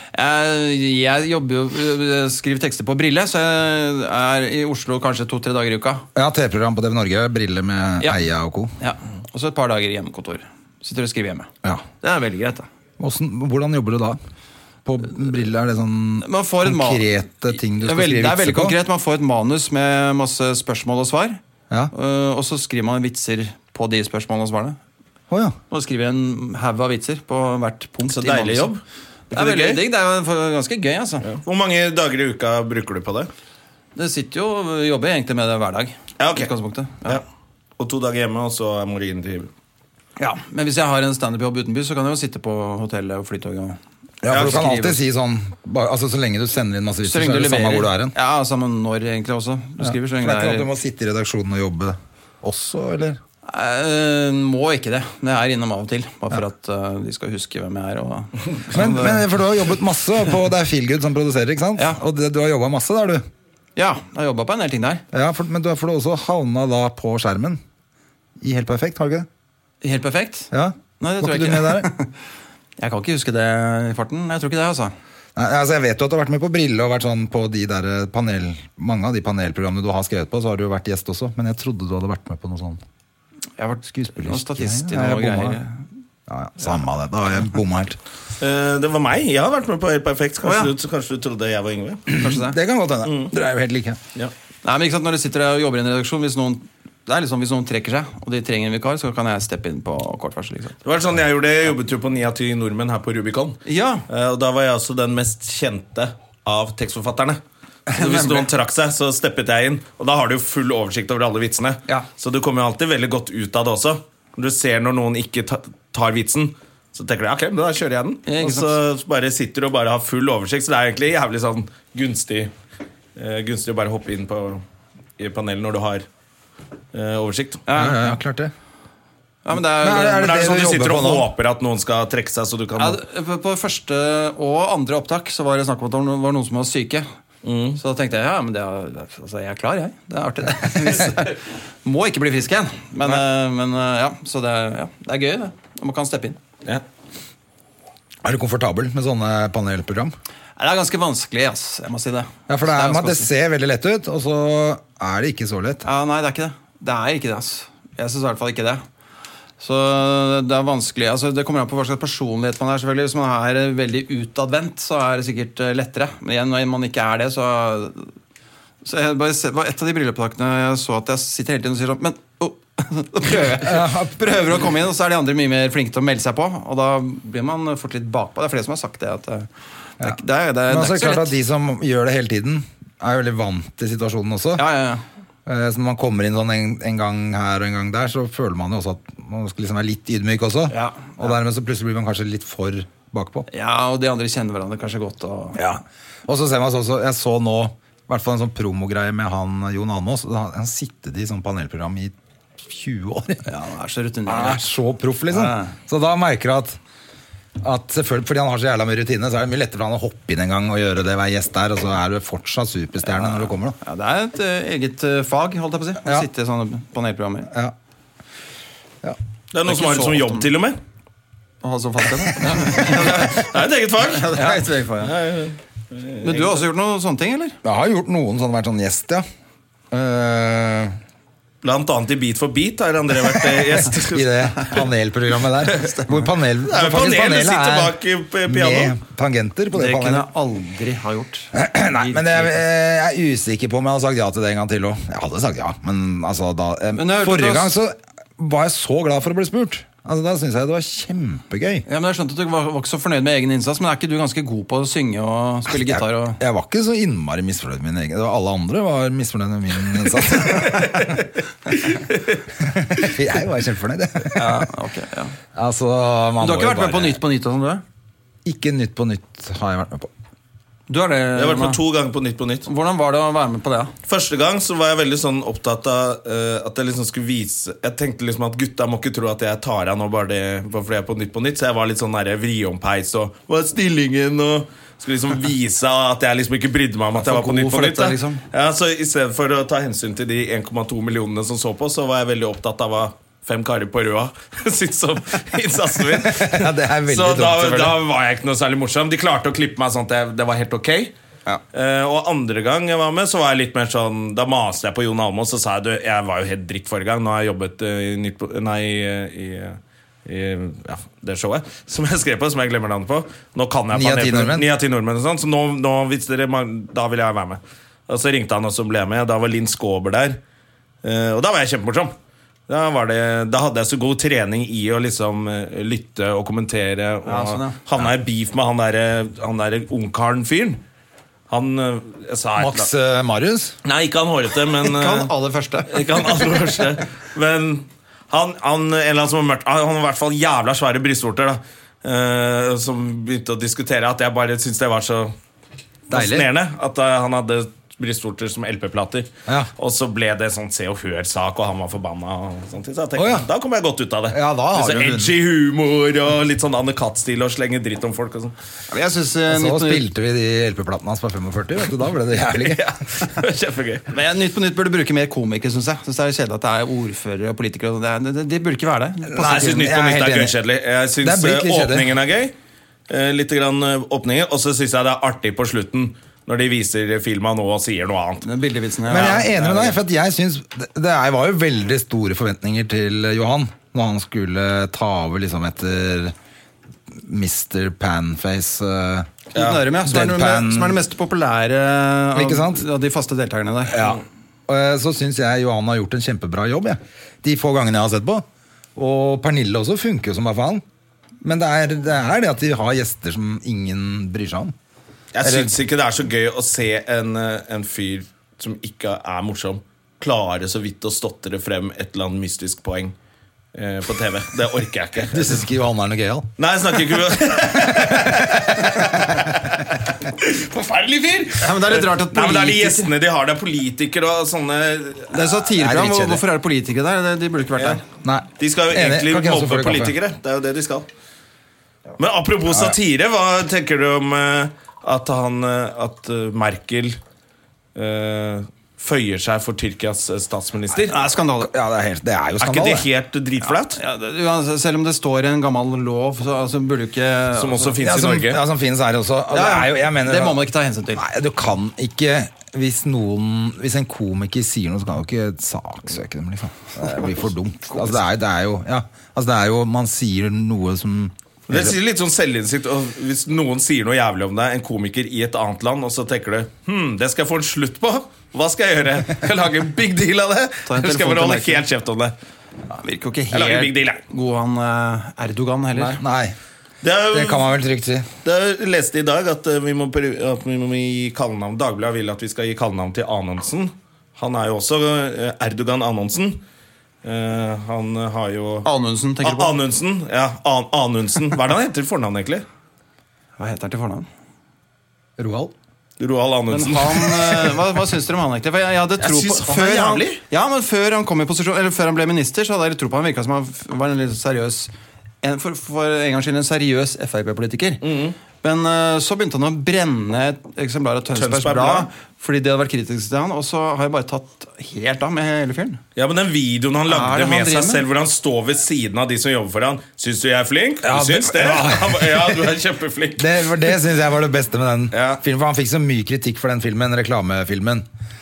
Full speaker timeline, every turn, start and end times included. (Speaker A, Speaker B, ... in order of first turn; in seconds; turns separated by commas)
Speaker A: 0.1-6.0, Speaker B: 6.2-8.7, Speaker A: 8.8-12.7, Speaker B: 13.0-14.2, Speaker B: 14.9-18.8, Speaker A: 16.2-17.1, Speaker A: 17.7-21.4, Speaker A: 21.9-24.8, Speaker B: 25.3-25.6, Speaker A: 25.7-28.7, Speaker C: 28.1-29.8, Speaker A: 29.3-31.3, Speaker C: 31.2-33.3, Speaker A: 34.0-37.2, Speaker C: 36.2-36.5, Speaker C: 37.8-39.5, Speaker A: 40.2-45.0, Speaker B: 44.2-48.1, Speaker A: 47.0-50.7, Speaker B: 49.8-53.2, Speaker A: 53.5-59.3, Speaker B: 58.7-63.2, Speaker A: 63.8-65.0, Speaker B: 65.1-67.6, Speaker B: 68.4-69.3, Speaker A: 69.8-72.1, Speaker B: 70.5-71.9, Speaker A: 72.8-75.0, Speaker B: 75.4-82.8, Speaker A: 83.6-85.9, Speaker B: 83.9-85.6, Speaker B: 86.3-88.0, Speaker C: 88.4-92.1, Speaker A: 90.4-90.7, Speaker B: 92.1-94.0, Speaker A: 92.1-92.6, Speaker C: 93.1-93.3, Speaker A: 94.6-100.8, Speaker C: 100.8-122.5, Speaker A: 103.7-104.0, Speaker A: 107.9-108.5, Speaker A: 118.3-118.8, Speaker C: 123.2-124.6, Speaker C: 125.2-126.1, Speaker C: 126.9-127.6, Speaker A: 127.7-128.2, Speaker B: 127.7-128.5, Speaker A: 129.4-130.5, Speaker B: 129.8-131.3, Speaker C: 130.1-133.0, Speaker A: 132.8-137.1, Speaker C: 137.4-137.8, Speaker A: 137.8-146.4, Speaker B: 148.2-150.2, Speaker A: 150.6-153.3, Speaker B: 152.5-155.8, Speaker A: 155.8-158.8, Speaker A: 159.6-168.1, Speaker A: 168.8-181.3, Speaker B: 173.6-174.3, Speaker B: 180.0-184.7, Speaker A: 184.6-185.0, Speaker B: 185.5-193.5, Speaker A: 190.7-191.3, Speaker A: 193.5-195.6, Speaker B: 195.6-203.4, Speaker A: 203.5-204.7, Speaker B: 204.3-206.8, Speaker A: 205.3-205.7, Speaker B: 207.6-213.8, Speaker A: 213.1-217.5, Speaker C: 219.5-220.8, Speaker A: 219.7-220.5, Speaker A: 221.6-223.5, Speaker C: 222.7-224.4, Speaker A: 224.0-225.2, Speaker C: 225.0-226.6, Speaker A: 226.2-227.6, Speaker B: 227.6-229.2, Speaker B: 229.9-231.0, Speaker C: 231.6-234.5, Speaker B: 234.0-240.3, Speaker A: 235.8-236.2, Speaker C: 236.6-239.0, Speaker A: 239.7-242.6, Speaker B: 241.5-251.8, Speaker A: 246.9-247.8, Speaker A: 251.9-256.4, Speaker B: 255.7-261.1, Speaker B: 262.6-264.7, Speaker A: 264.3-265.4, Speaker B: 265.6-267.2, Speaker A: 266.4-267.8, Speaker B: 268.4-270.1, Speaker A: 270.9-271.8, Speaker C: 271.4-272.7, Speaker A: 272.7-273.9, Speaker C: 274.1-301.1, Speaker A: 287.2-288.4, Speaker B: 296.2-298.0, Speaker C: 301.7-320.4, Speaker B: 313.9-314.7, Speaker C: 321.0-322.1, Speaker C: 322.7-330.8, Speaker A: 327.3-327.8, Speaker C: 331.5-332.9, Speaker B: 332.6-333.8, Speaker C: 333.8-335.3, Speaker A: 334.8-336.2, Speaker C: 335.9-345.4, Speaker C: 346.1-358.5, Speaker B: 346.1-346.5, Speaker B: 353.2-353.5, Speaker B: 354.3-355.3, Speaker A: 358.9-360.1, Speaker B: 359.5-362.9, Speaker C: 362.4-364.1, Speaker A: 364.1-369.8, Speaker B: 369.3-370.6, Speaker C: 369.4-372.5, Speaker B: 371.2-372.1, Speaker C: 373.1-378.5, Speaker A: 378.4-379.9, Speaker B: 379.1-386.3, Speaker B: 387.1-389.4, Speaker A: 389.5-394.1, Speaker C: 389.5-389.8, Speaker B: 390.0-391.0, Speaker B: 392.4-392.8, Speaker B: 393.9-398.4, Speaker B: 399.0-400.8, Speaker B: 401.4-404.7, Speaker C: 405.3-413.1, Speaker B: 405.4-405.8, Speaker C: 413.7-415.6, Speaker B: 415.3-416.5, Speaker C: 416.6-425.4, Speaker B: 417.7-419.5, Speaker A: 421.6-423.1, Speaker A: 425.3-428.0, Speaker B: 425.6-426.4, Speaker B: 428.2-430.1, Speaker C: 428.6-431.1, Speaker C: 432.2-437.2, Speaker B: 432.7-433.0, Speaker C: 437.9-441.2, Speaker A: 441.0-441.7, Speaker B: 441.6-443.1, Speaker C: 442.6-444.0, Speaker A: 443.7-448.0, Speaker C: 447.5-448.6, Speaker B: 448.0-450.6, Speaker A: 449.5-451.2, Speaker B: 451.1-462.0, Speaker C: 461.7-472.3, Speaker A: 470.9-471.9, Speaker A: 472.9-476.2, Speaker C: 473.5-474.2, Speaker B: 475.9-476.6, Speaker C: 477.0-477.7, Speaker B: 477.3-478.3, Speaker C: 478.4-486.6, Speaker C: 487.2-488.9, Speaker A: 488.9-489.8, Speaker C: 489.4-492.6, Speaker A: 493.6-494.3, Speaker B: 495.4-495.7, Speaker C: 496.2-497.7, Speaker A: 496.7-504.9, Speaker C: 499.2-500.4, Speaker A: 505.4-508.0, Speaker C: 508.0-508.4, Speaker A: 508.6-516.0, Speaker C: 511.3-512.1, Speaker C: 516.2-523.6, Speaker A: 517.1-518.0, Speaker B: 521.0-522.7, Speaker B: 523.4-528.0, Speaker C: 525.1-525.4